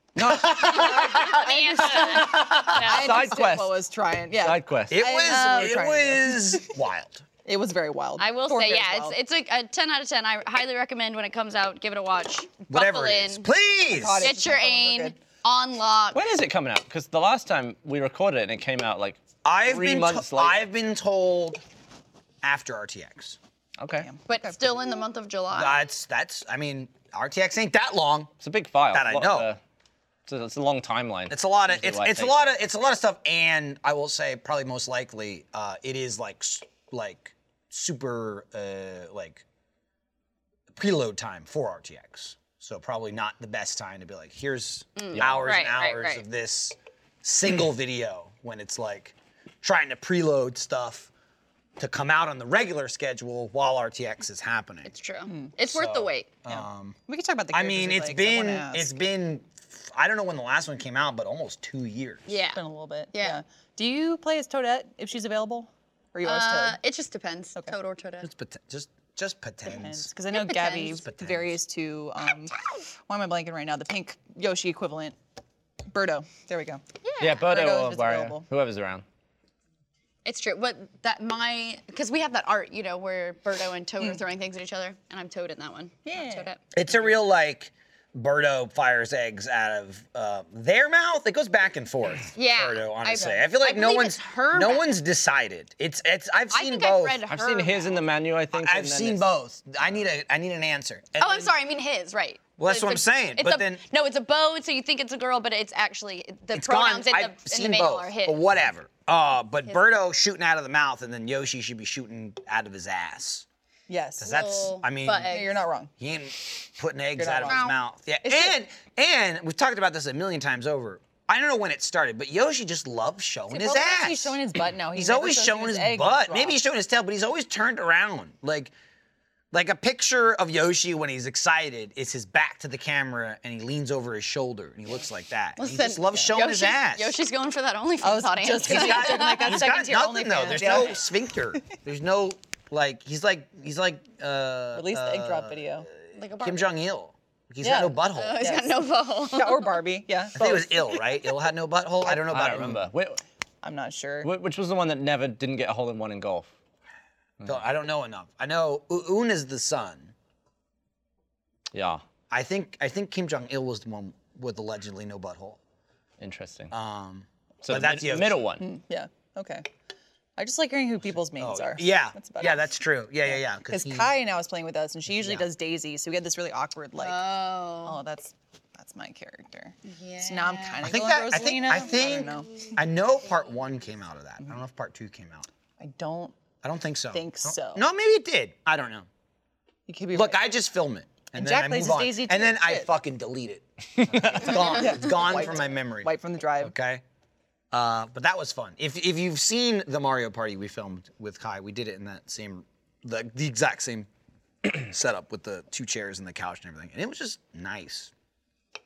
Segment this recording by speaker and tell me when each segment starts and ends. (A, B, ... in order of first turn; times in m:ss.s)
0:00.2-0:03.0 A
0:00.2-0:00.9 B
0:00.6-0:03.3 C
0:01.1-0:06.6 D
0:02.8-0:03.7 B
0:04.3-0:05.0 B
0:04.9-0:07.2 A
0:05.2-0:05.9 C
0:07.4-0:09.2 D
0:08.2-0:13.5 C
0:12.7-0:14.4 A
0:13.9-0:15.2 D
0:14.2-0:16.2 C
0:16.1-0:20.7 B
0:19.4-0:21.6 A
0:22.4-0:23.4 A
0:23.8-0:24.1 B
0:24.0-0:24.6 D
0:24.3-0:25.8 C
0:25.5-0:28.3 A
0:28.4-0:29.6 B
0:28.9-0:29.5 A
0:30.3-0:32.6 B
0:31.3-0:39.4 A
0:40.7-0:51.1 A
0:45.0-0:46.2 C
0:45.2-0:45.4 B
0:51.8-0:54.9 A
0:54.9-0:56.3 C
0:55.6-0:57.0 A
0:56.5-0:58.9 D
0:57.5-1:02.3 A
1:02.3-1:02.6 C
1:02.6-1:06.8 D
1:03.1-1:03.4 C
1:06.2-1:08.3 C
1:08.2-1:10.1 A
1:09.7-1:12.5 D
1:10.3-1:11.0 C
1:10.9-1:11.6 A
1:13.1-1:15.2 D
1:15.9-1:16.8 D
1:17.0-1:17.6 C
1:17.2-1:19.0 B
1:17.4-1:18.4 D
1:20.2-1:26.6 C
1:26.1-1:26.5 D
1:26.7-1:37.2 A
1:32.4-1:34.9 C
1:36.5-1:38.0 C
1:37.3-1:39.2 B
1:38.5-1:41.5 A
1:41.2-1:48.4 C
1:42.6-1:43.8 A
1:46.5-1:53.5 A
1:53.9-1:54.3 D
1:54.2-1:55.4 A
1:54.2-1:55.5 C
1:55.2-1:55.9 D
1:56.0-2:04.4 A
1:57.2-1:57.6 D
1:57.5-1:57.8 C
1:58.2-1:58.5 D
2:03.5-2:06.6 D
2:04.9-2:08.7 A
2:09.5-2:17.2 A
2:15.6-2:19.7 C
2:18.0-2:21.1 D
2:18.6-2:25.8 A
2:24.7-2:25.9 D
2:26.1-2:26.7 C
2:26.4-2:28.6 A
2:27.6-2:28.8 D
2:28.2-2:29.7 C
2:29.3-2:31.0 D
2:30.4-2:32.8 A
2:32.2-2:33.2 B
2:33.6-2:34.3 D
2:34.2-2:36.5 B
2:37.4-2:40.1 A
2:41.7-2:42.0 B
2:42.3-2:45.6 A
2:46.2-2:46.7 B
2:46.7-2:48.4 A
2:47.6-2:48.7 B
2:48.6-2:49.7 D
2:50.4-2:52.6 D
2:51.4-2:54.1 A
2:53.3-2:57.2 D
2:55.1-2:55.5 A
2:57.0-2:58.0 C
2:57.8-3:02.7 D
2:59.8-3:00.8 C
3:00.8-3:05.5 A
3:01.7-3:02.8 C
3:05.8-3:06.4 D
3:06.6-3:09.1 A
3:07.1-3:07.8 D
3:09.9-3:10.4 D
3:10.1-3:17.0 A
3:11.4-3:12.9 D
3:14.0-3:14.7 B
3:14.5-3:16.7 D
3:17.7-3:24.1 A
3:24.6-3:28.1 A